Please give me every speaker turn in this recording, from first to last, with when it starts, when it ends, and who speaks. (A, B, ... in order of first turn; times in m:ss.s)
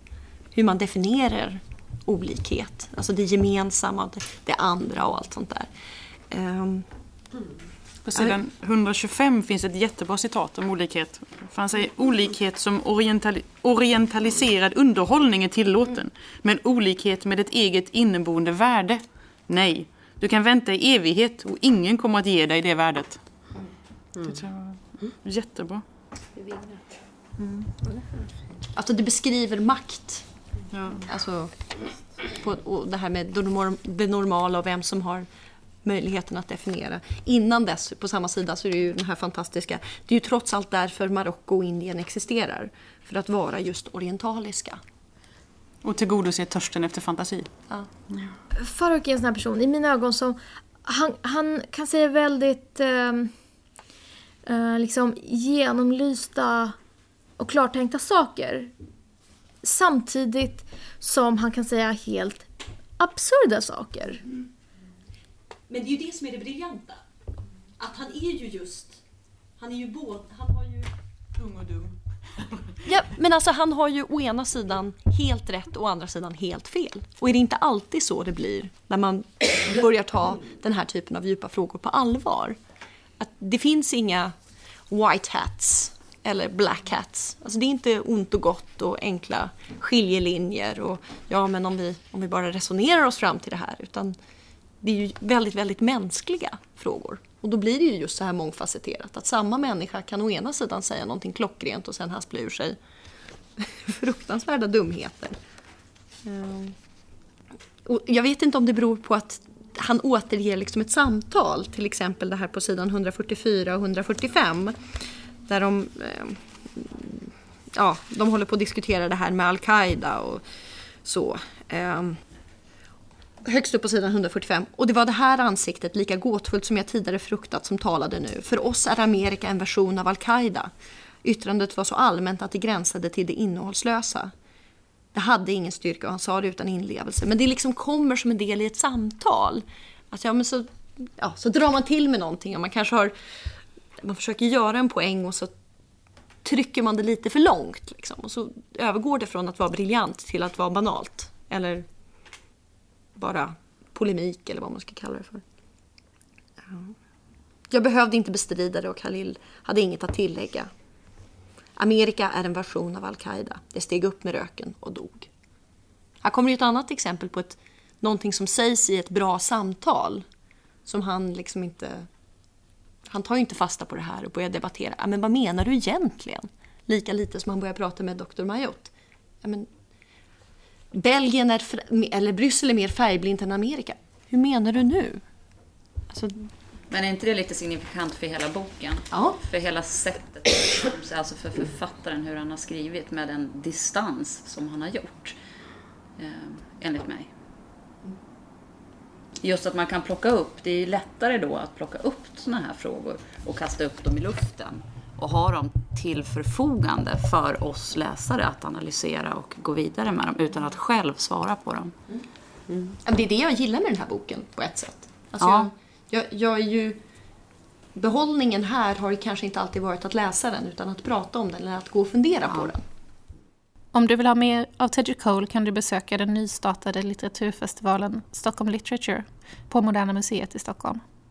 0:00.5-0:05.7 A
0:06.3-0:06.9 A
0:08.0-0:23.2 B
0:24.2-0:25.8 B
0:27.4-0:27.7 B
0:28.7-0:30.2 A
0:30.7-0:31.0 B
0:31.0-0:31.7 A
0:32.3-0:35.3 A
0:35.8-0:44.8 A
0:45.8-0:47.5 B
0:48.5-0:53.3 C
0:54.4-0:56.8 C
0:57.4-0:58.7 C
0:59.6-1:02.5 C
1:03.0-1:04.2 C
1:05.7-1:07.0 A
1:07.8-1:09.0 A
1:09.6-1:10.9 A
1:11.4-1:12.7 B
1:12.8-1:22.6 A
1:23.2-1:24.3 A
1:24.9-1:34.1 A
1:34.8-1:42.8 A
1:43.6-1:45.4 A
1:46.2-1:46.8 A
1:47.8-1:54.8 A
1:55.4-2:00.4 A
2:01.0-2:02.2 A
2:03.4-2:14.3 A
2:15.1-2:23.2 A
2:24.0-2:25.5 A
2:26.4-2:31.9 A
2:33.2-2:35.4 A
2:36.6-2:36.9 A
2:37.7-2:40.7 A
2:41.8-2:45.3 A
2:46.2-2:50.2 A
2:50.8-2:52.1 A
2:53.0-2:59.7 A
3:00.9-3:05.2 A
3:06.1-3:06.5 A
3:06.9-3:15.4 D
3:09.1-3:09.4 A
3:16.2-3:17.3 D
3:19.4-3:31.9 D
3:32.8-3:37.0 A
3:35.4-3:35.7 D
3:37.9-3:42.8 A
3:43.9-3:51.0 E